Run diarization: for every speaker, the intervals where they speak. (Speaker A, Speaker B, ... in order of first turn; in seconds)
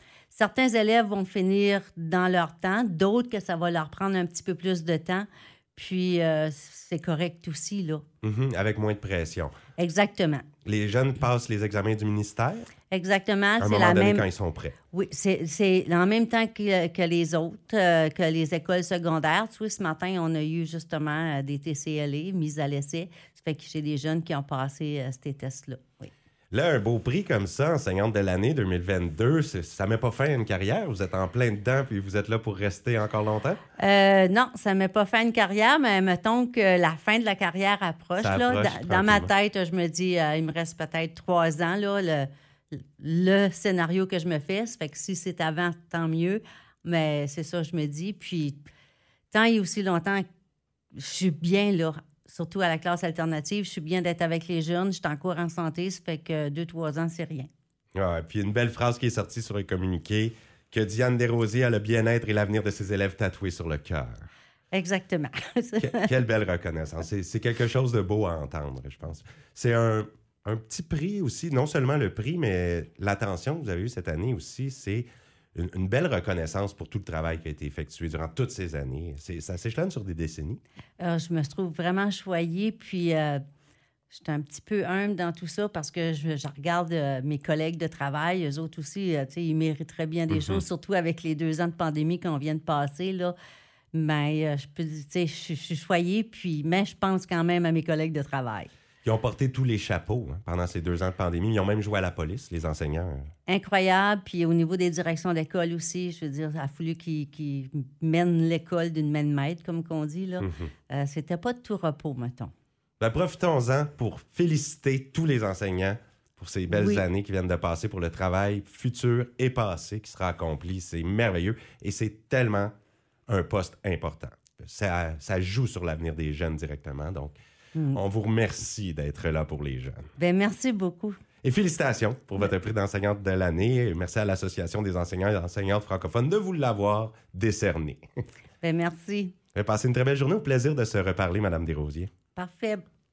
Speaker A: 0.3-8.0, 9.8-10.4, 12.9-14.2, 14.9-26.1, 33.8-48.6, 49.3-50.2, 50.9-57.5, 64.7-66.1, 81.0-83.4, 84.1-93.3, 93.9-98.7, 103.5-112.5, 116.7-117.0, 127.7-128.0, 130.2-131.2, 138.6-139.3, 142.3-142.8
Speaker B: 8.2-9.5, 10.6-12.7, 13.6-14.7, 26.5-33.6, 38.2-39.3, 57.9-64.3, 65.8-80.6, 90.3-90.6, 99.0-103.3, 113.0-122.7, 123.3-127.4, 127.9-130.0, 131.4-138.0, 139.5-142.1